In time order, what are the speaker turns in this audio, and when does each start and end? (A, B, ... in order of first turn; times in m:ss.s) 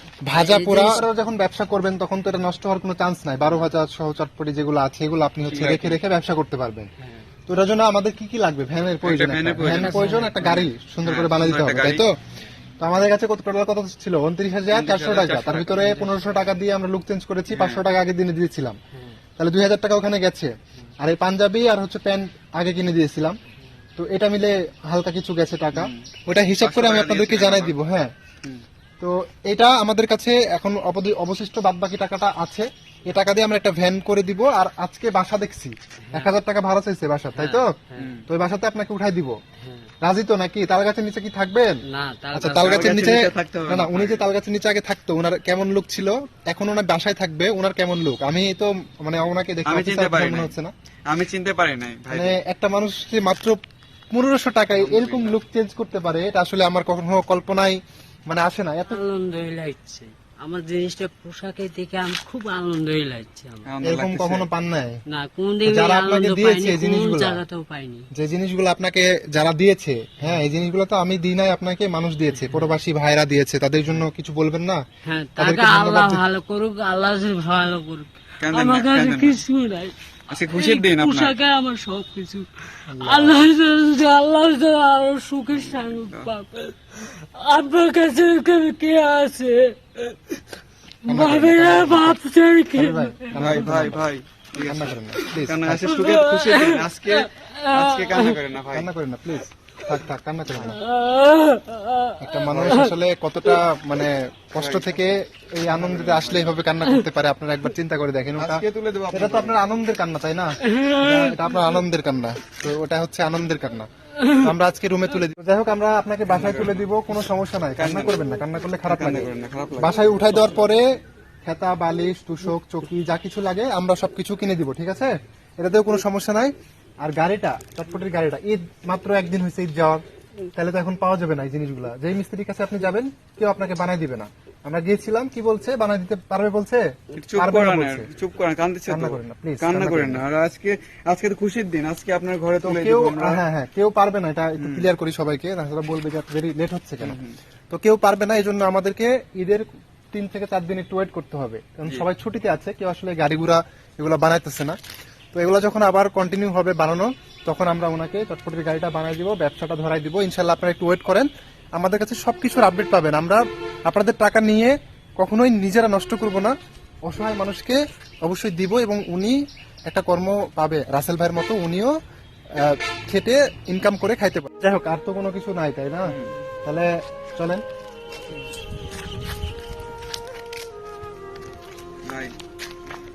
0:00.2-0:06.9 A
0:00.3-0:01.0 B
0:05.4-0:06.0 C
0:07.0-0:07.3 B
0:07.5-0:12.2 A
0:09.0-0:12.1 C
0:09.6-0:10.6 B
0:12.8-0:18.8 A
0:14.7-0:15.9 C
0:15.9-0:16.3 B
0:17.5-0:17.8 C
0:18.9-0:19.2 B
0:19.4-0:23.4 A
0:24.0-0:28.1 A
0:25.7-0:27.8 C
0:29.0-0:39.3 A
0:37.3-0:38.1 B
0:38.0-0:38.3 C
0:39.6-0:39.9 B
0:40.0-0:41.8 A
0:41.9-0:43.0 B
0:42.3-0:50.7 A
0:42.6-0:44.3 C
0:49.6-0:50.6 C
0:51.1-0:52.4 C
0:52.1-0:53.6 A
0:54.1-0:59.0 A
0:54.7-0:55.4 C
0:58.9-1:03.7 B
1:03.6-1:04.5 C
1:03.8-1:05.0 A
1:05.1-1:08.1 B
1:05.6-1:07.4 A
1:08.1-1:14.8 A
1:10.2-1:10.5 B
1:12.3-1:12.8 B
1:15.0-1:30.3 B
1:15.4-1:16.2 A
1:18.4-1:19.4 C
1:20.3-1:21.3 C
1:22.9-1:23.4 A
1:25.5-1:26.3 C
1:31.0-1:33.8 B
1:31.1-1:32.2 A
1:32.7-1:34.0 A
1:33.3-1:38.9 C
1:34.6-1:36.0 A
1:35.8-1:38.4 B
1:38.7-1:40.8 A
1:40.6-1:42.9 B
1:42.2-2:00.8 A
1:42.5-1:42.9 C
1:44.6-1:45.1 C
1:45.7-1:46.7 C
1:48.4-1:49.6 C
1:50.6-1:51.7 B
1:54.2-1:54.5 B
1:56.3-1:56.8 C
1:57.8-1:58.3 C
1:58.8-2:00.1 C
2:01.4-2:10.0 A
2:10.5-2:18.1 A
2:17.1-2:23.4 C
2:18.9-2:20.2 A
2:22.6-2:34.8 A
2:24.6-2:24.9 C
2:27.0-2:27.4 C
2:35.3-2:49.4 A
2:49.9-2:51.9 A
2:52.5-2:57.6 A
2:56.0-2:56.4 C
3:02.0-3:02.4 C